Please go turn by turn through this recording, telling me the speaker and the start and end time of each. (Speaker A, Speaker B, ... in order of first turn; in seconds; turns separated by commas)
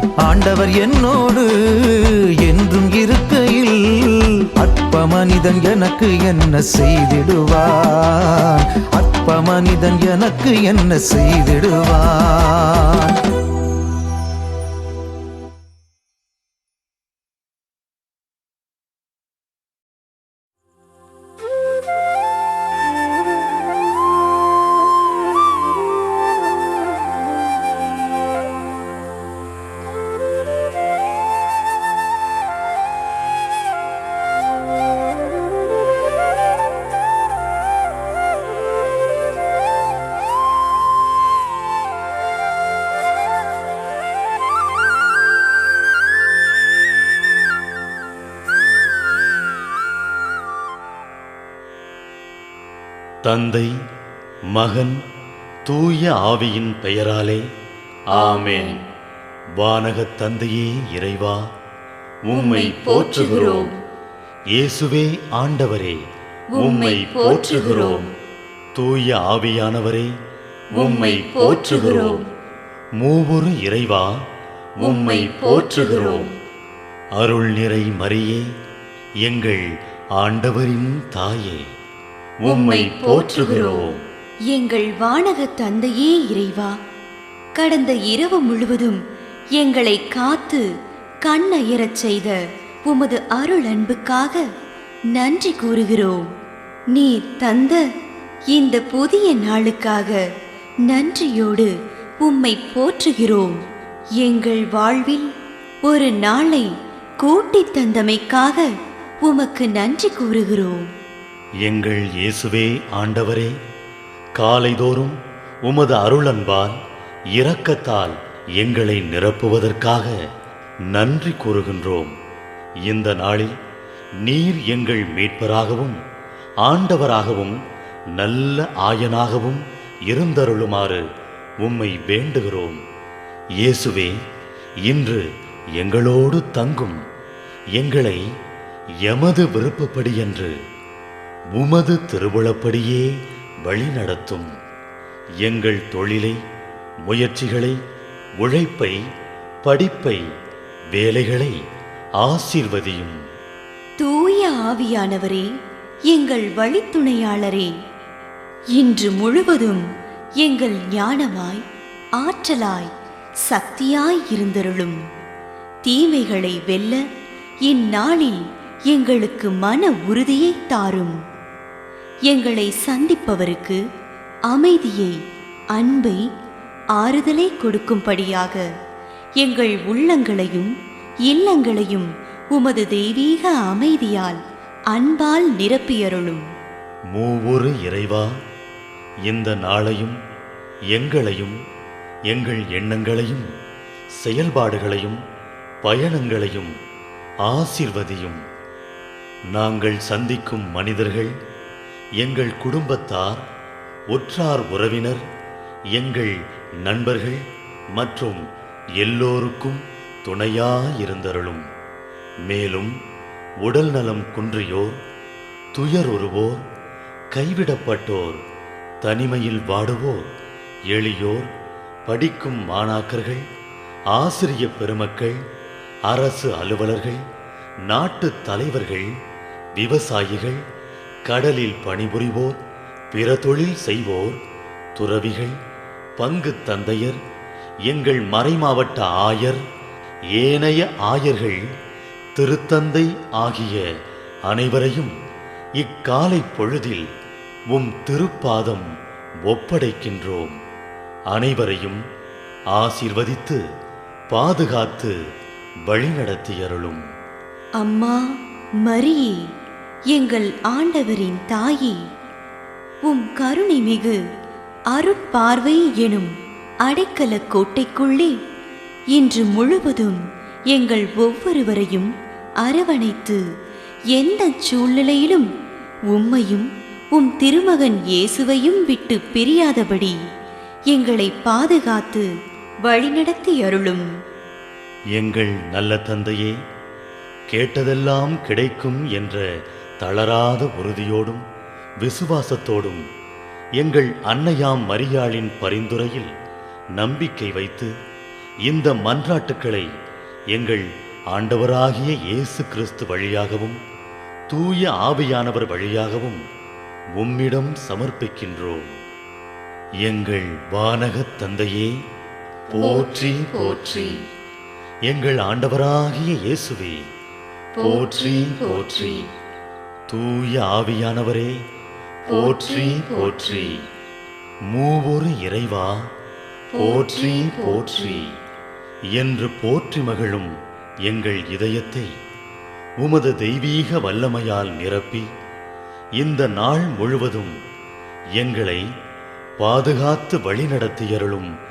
Speaker A: 0.2-13.2, Speaker B: 53.2-53.7, Speaker B: 54.5-55.0, Speaker B: 55.7-57.4, Speaker C: 58.1-58.8, Speaker B: 58.1-58.8, Speaker B: 59.6-61.4, Speaker B: 62.3-63.7, Speaker C: 62.3-63.8, Speaker B: 64.5-66.0, Speaker C: 66.5-68.1, Speaker B: 66.6-68.1, Speaker B: 68.8-70.1, Speaker C: 70.7-72.2, Speaker B: 70.8-72.2, Speaker B: 73.0-74.1, Speaker B: 74.8-76.3, Speaker C: 74.8-76.3, Speaker B: 77.2-78.5, Speaker B: 79.2-79.6, Speaker B: 80.2-81.6, Speaker B: 82.4-84.0, Speaker C: 82.5-84.0, Speaker C: 84.5-86.7, Speaker C: 87.6-89.0, Speaker C: 89.6-90.7, Speaker C: 91.2-94.4, Speaker C: 95.1-96.3, Speaker C: 96.9-97.8, Speaker C: 98.5-100.2, Speaker C: 100.9-103.6, Speaker C: 104.2-105.3, Speaker C: 105.8-106.7, Speaker C: 107.2-108.7, Speaker C: 109.2-110.8, Speaker B: 111.6-113.5, Speaker B: 114.4-116.8, Speaker B: 117.3-120.1, Speaker B: 120.9-122.1, Speaker B: 122.9-123.5, Speaker B: 124.2-126.0, Speaker B: 126.7-127.6, Speaker B: 128.2-131.0, Speaker B: 131.6-132.8, Speaker B: 133.6-134.2, Speaker B: 134.9-135.2, Speaker B: 135.8-137.0, Speaker B: 137.8-138.2, Speaker B: 139.1-140.5, Speaker B: 141.5-143.1, Speaker B: 143.7-144.5, Speaker B: 145.4-146.4, Speaker B: 147.1-147.8, Speaker B: 148.4-149.0, Speaker B: 149.6-150.2, Speaker B: 150.9-151.6, Speaker B: 152.2-153.2, Speaker C: 154.0-155.5, Speaker C: 156.1-157.7, Speaker C: 158.8-159.8, Speaker C: 160.4-161.6, Speaker C: 162.2-162.9, Speaker C: 163.4-165.0, Speaker C: 165.8-167.0, Speaker C: 167.7-171.2, Speaker C: 172.3-173.8, Speaker C: 174.5-175.2, Speaker C: 175.8-176.2, Speaker C: 177.0-178.7, Speaker C: 179.4-180.7, Speaker C: 181.3-184.4, Speaker C: 184.9-186.4, Speaker B: 187.1-188.3, Speaker B: 189.3-190.2, Speaker B: 190.9-191.6, Speaker B: 192.3-193.5, Speaker B: 194.2-195.2, Speaker B: 195.8-196.7, Speaker B: 197.5-198.4, Speaker B: 199.6-201.3, Speaker B: 202.2-203.4, Speaker B: 204.1-205.2, Speaker B: 206.0-206.3, Speaker B: 206.8-207.4, Speaker B: 208.0-208.4, Speaker B: 209.0-211.6, Speaker B: 212.5-212.9, Speaker B: 213.6-215.0, Speaker B: 215.8-216.6, Speaker B: 217.3-218.4, Speaker B: 219.0-220.3, Speaker B: 220.9-221.5, Speaker B: 222.1-223.4, Speaker B: 224.2-225.4, Speaker B: 226.1-227.2, Speaker B: 227.9-229.1, Speaker B: 229.8-230.6, Speaker B: 231.3-232.6, Speaker B: 233.1-234.4, Speaker B: 235.0-235.6, Speaker B: 236.2-237.2, Speaker B: 237.9-239.6, Speaker B: 240.3-241.6, Speaker B: 242.4-243.8, Speaker B: 244.5-245.1, Speaker B: 245.8-247.1, Speaker B: 247.7-248.9, Speaker B: 249.5-250.6, Speaker B: 251.3-252.0, Speaker B: 252.8-253.6, Speaker B: 254.3-255.1, Speaker B: 255.9-257.0, Speaker C: 257.8-258.2, Speaker C: 258.8-259.4, Speaker C: 260.1-262.0, Speaker C: 263.1-264.2, Speaker C: 264.9-266.3, Speaker C: 266.9-268.4, Speaker C: 269.1-270.2, Speaker C: 270.7-272.1, Speaker C: 272.6-273.4, Speaker C: 274.1-275.5, Speaker C: 276.1-280.2, Speaker C: 280.9-282.3, Speaker C: 282.9-284.1, Speaker B: 285.2-286.6, Speaker B: 287.5-289.4, Speaker B: 290.0-291.4, Speaker B: 292.0-293.0, Speaker B: 293.8-296.3, Speaker B: 297.0-297.9, Speaker B: 298.7-299.9, Speaker B: 300.5-303.8, Speaker B: 304.5-306.4, Speaker B: 307.2-308.9, Speaker B: 310.0-311.9, Speaker B: 312.7-314.2, Speaker C: 313.8-314.0, Speaker B: 315.1-317.0, Speaker B: 317.8-319.3, Speaker C: 317.8-319.2, Speaker B: 320.1-321.5, Speaker B: 322.3-323.8, Speaker C: 322.9-323.4, Speaker B: 324.7-326.0, Speaker B: 326.8-328.3, Speaker C: 326.8-328.2, Speaker B: 329.1-330.5, Speaker B: 331.1-332.1, Speaker B: 333.0-335.3, Speaker B: 336.2-337.6, Speaker B: 338.4-338.8, Speaker B: 339.6-341.5